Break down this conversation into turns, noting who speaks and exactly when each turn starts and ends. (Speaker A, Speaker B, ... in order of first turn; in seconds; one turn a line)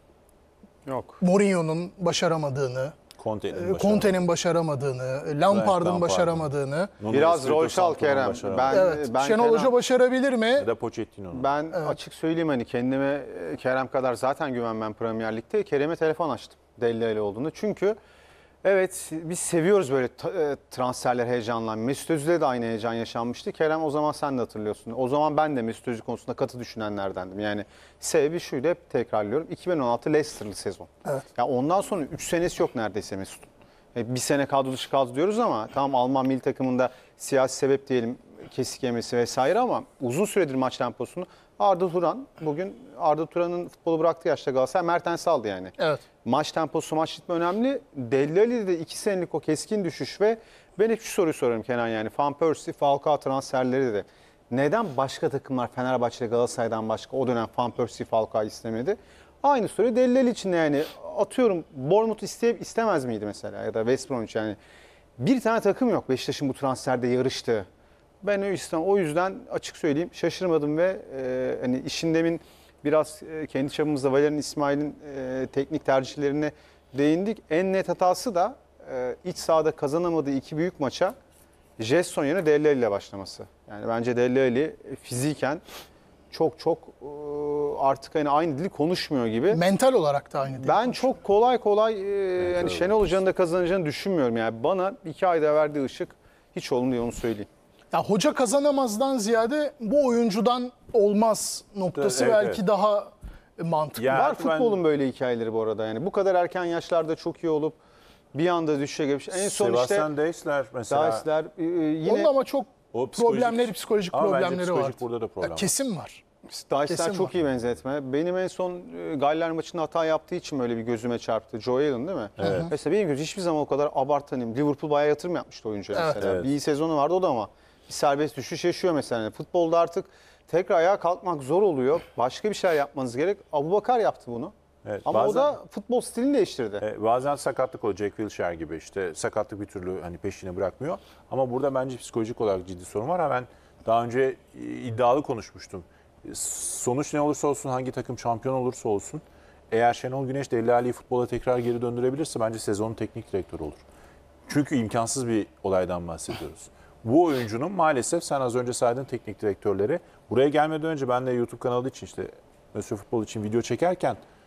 Speaker A: 0.8-1.2
Speaker B: 1.2-3.0
Speaker C: 3.2-4.2
Speaker B: 3.5-6.9
Speaker C: 5.5-6.5
Speaker C: 7.0-8.9
Speaker A: 7.1-9.8
Speaker B: 8.7-10.7
Speaker C: 10.6-11.5
Speaker A: 11.3-18.0
Speaker A: 18.6-64.6
Speaker B: 45.8-46.0
Speaker A: 65.2-67.7
Speaker A: 68.2-81.2
Speaker A: 81.8-85.6
Speaker A: 86.3-89.6
Speaker B: 89.5-91.0
Speaker A: 90.5-97.5
Speaker C: 92.4-93.0
Speaker B: 97.9-104.2
Speaker C: 101.9-102.6
Speaker C: 104.0-104.8
Speaker A: 104.1-107.8
Speaker A: 108.3-110.1
Speaker C: 109.3-111.2
Speaker A: 110.9-112.3
Speaker B: 112.1-116.2
Speaker C: 112.9-115.7
Speaker A: 116.5-134.5
Speaker B: 116.9-117.3
Speaker B: 122.4-122.7
Speaker C: 122.4-122.7
Speaker C: 126.2-126.5
Speaker C: 134.8-135.6
Speaker A: 135.1-136.8
Speaker C: 136.8-153.8
Speaker C: 154.5-164.2